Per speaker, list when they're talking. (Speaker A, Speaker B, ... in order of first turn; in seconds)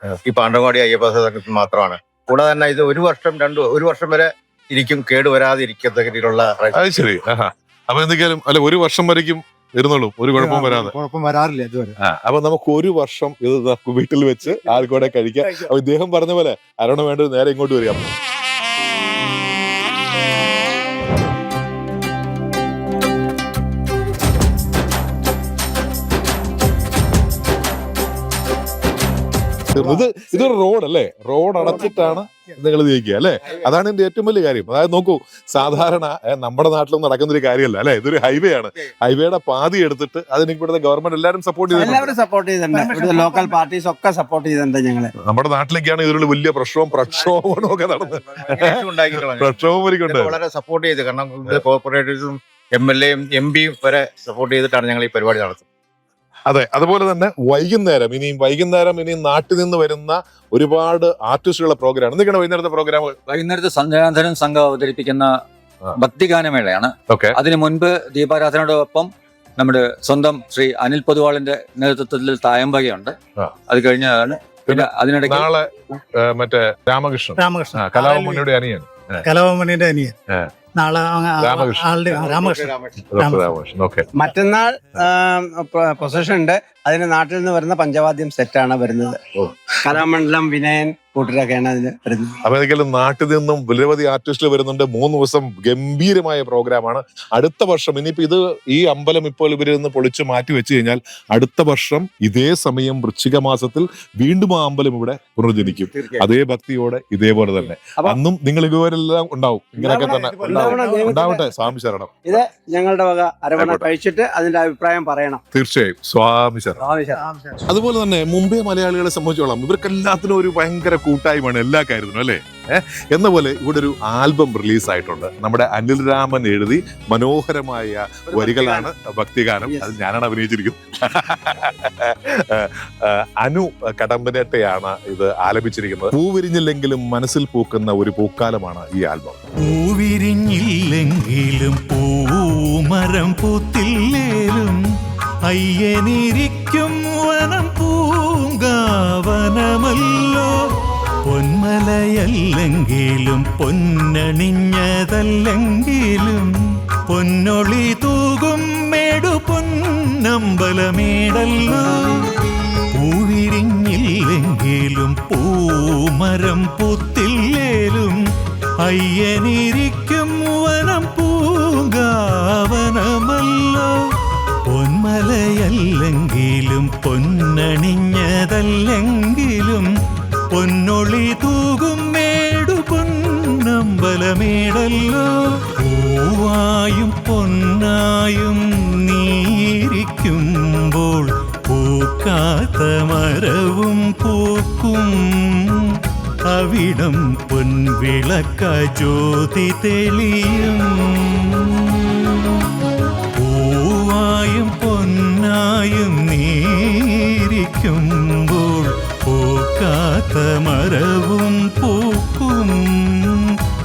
Speaker A: 0.3-6.8, 48.3-49.5, 50.1-55.6, 82.1-83.1
Speaker B: 6.7-10.9, 12.0-18.1, 29.7-42.1, 45.2-50.4, 56.5-63.2, 67.1-67.4, 74.7-79.2, 81.4-81.9, 83.1-84.1, 92.4-112.2, 113.6-113.8, 115.5-116.8, 117.7-139.4
Speaker C: 10.4-11.9, 41.7-45.1, 84.2-89.2, 89.8-92.4, 105.6-106.3, 109.8-111.5, 112.3-115.4, 116.8-117.2, 128.3-128.9, 129.7-129.9
Speaker D: 42.7-43.5, 77.4-78.5, 79.2-80.1, 80.8-83.5, 109.8-111.3, 117.2-117.6
Speaker E: 63.3-65.3, 66.0-73.2, 73.7-75.5
Speaker F: 139.6-144.8, 145.5-150.5, 151.2-156.5, 157.1-162.3, 162.9-168.2, 168.8-174.0, 174.7-179.9, 180.5-195.9, 196.5-202.4, 203.4-213.6